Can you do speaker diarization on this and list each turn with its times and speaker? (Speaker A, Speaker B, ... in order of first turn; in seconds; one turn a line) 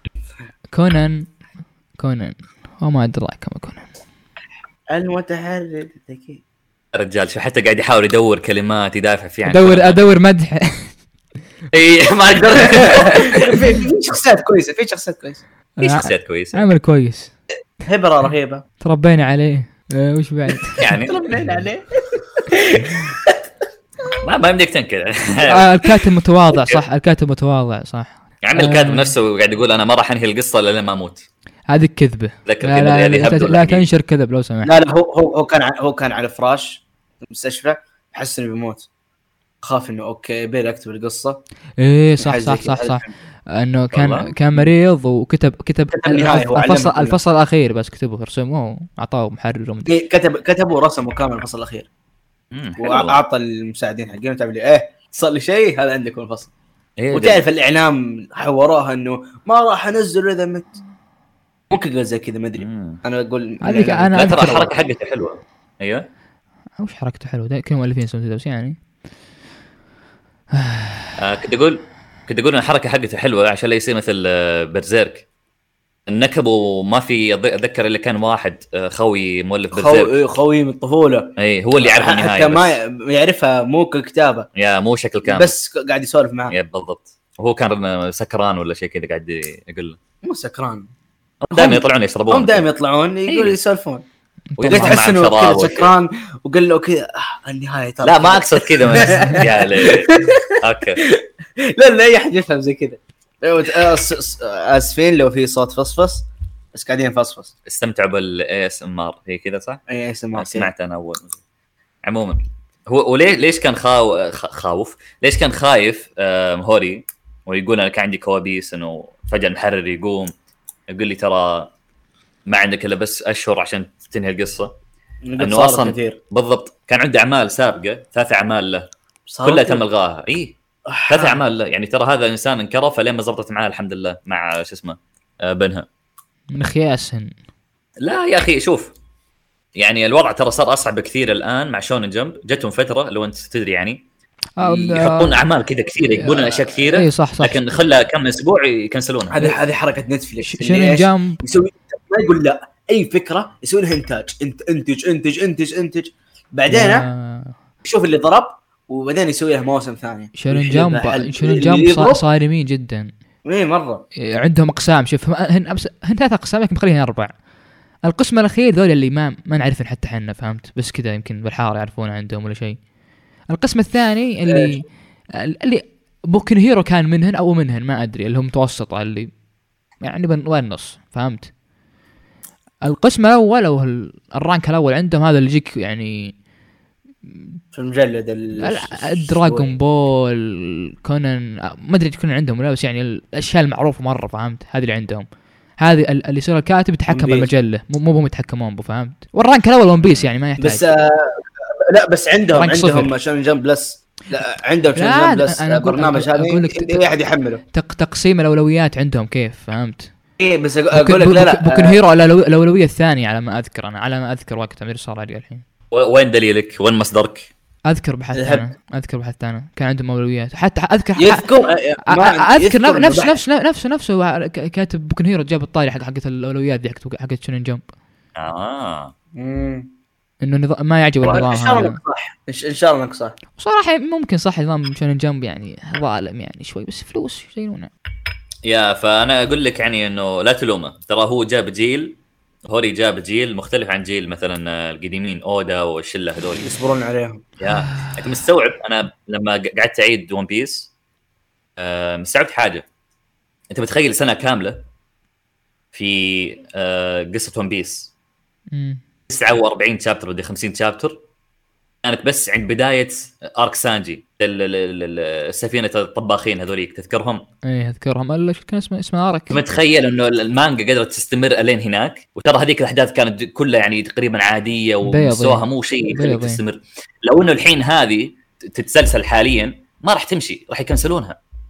Speaker A: 0.7-1.3
Speaker A: 2.0-3.9
Speaker B: 4.9-6.4
Speaker C: 6.9-10.0
Speaker A: 9.4-10.9
Speaker C: 11.7-13.4
Speaker B: 12.6-15.4
Speaker A: 15.8-17.3
Speaker C: 15.8-16.6
Speaker B: 17.9-18.6
Speaker A: 18.8-20.9
Speaker C: 20.8-21.1
Speaker B: 20.9-23.4
Speaker C: 24.2-25.9
Speaker A: 25.4-29.1
Speaker C: 26.5-26.8
Speaker C: 28.4-31.3
Speaker A: 31.7-34.7
Speaker C: 32.5-33.9
Speaker B: 34.6-38.9
Speaker B: 39.6-41.4
Speaker A: 41.8-49.9
Speaker B: 42.2-43.1
Speaker C: 43.9-44.3
Speaker B: 45.9-47.2
Speaker B: 49.9-51.9
Speaker C: 52.5-53.2
Speaker B: 52.8-56.5
Speaker C: 57.0-57.4
Speaker B: 57.1-60.8
Speaker B: 61.7-64.5
Speaker C: 62.6-63.0
Speaker A: 63.6-64.7
Speaker C: 64.1-66.0
Speaker A: 66.8-68.8
Speaker A: 70.5-71.2
Speaker C: 71.2-75.2
Speaker C: 76.1-80.1
Speaker B: 79.7-84.5
Speaker C: 81.4-82.8
Speaker C: 84.5-85.5
Speaker B: 85.2-86.5
Speaker C: 86.5-90.0
Speaker B: 90.2-90.9
Speaker C: 91.4-92.7
Speaker B: 91.5-94.0
Speaker C: 93.3-93.6
Speaker A: 94.5-95.0
Speaker C: 94.6-95.9
Speaker B: 94.6-107.5
Speaker C: 98.0-101.0
Speaker C: 107.7-109.8
Speaker B: 109.9-110.7
Speaker C: 110.3-111.4
Speaker C: 112.0-120.3
Speaker C: 120.9-121.7
Speaker C: 122.5-124.7
Speaker B: 125.2-126.2
Speaker C: 125.4-128.9
Speaker B: 129.3-129.8
Speaker C: 129.4-130.6
Speaker B: 130.9-131.4
Speaker C: 131.1-135.9
Speaker A: 136.5-137.3
Speaker C: 138.0-138.9
Speaker C: 139.8-144.0
Speaker A: 144.6-145.4
Speaker C: 144.6-149.4
Speaker A: 146.2-147.6
Speaker B: 149.3-157.1
Speaker A: 150.4-151.4
Speaker A: 156.7-157.5
Speaker B: 157.8-162.2
Speaker A: 160.3-163.1
Speaker B: 163.4-164.0
Speaker A: 164.2-167.3
Speaker A: 168.1-172.8
Speaker A: 173.5-174.8
Speaker B: 174.5-174.8
Speaker A: 175.4-179.3
Speaker A: 180.0-181.5
Speaker A: 182.8-186.4
Speaker B: 187.7-189.7
Speaker A: 188.6-195.3
Speaker A: 195.8-200.8
Speaker B: 197.1-197.5
Speaker B: 200.6-207.6
Speaker A: 202.5-203.1
Speaker A: 204.9-207.1
Speaker A: 207.7-210.1
Speaker B: 210.4-212.0
Speaker A: 210.9-215.6
Speaker C: 215.9-217.5
Speaker A: 217.9-221.5
Speaker B: 218.3-218.6
Speaker B: 221.2-223.4
Speaker A: 222.1-227.8
Speaker C: 228.3-229.1
Speaker B: 229.4-229.9
Speaker A: 230.4-232.0
Speaker B: 231.2-233.4
Speaker A: 233.6-237.9
Speaker C: 238.6-246.7
Speaker B: 246.6-247.4
Speaker C: 247.6-250.9
Speaker A: 247.8-248.2
Speaker C: 251.8-252.8
Speaker C: 253.7-254.8
Speaker C: 255.9-258.1
Speaker A: 258.7-259.0
Speaker C: 259.3-261.2
Speaker C: 262.0-267.4
Speaker A: 267.6-269.6
Speaker C: 269.5-281.4
Speaker A: 275.0-276.6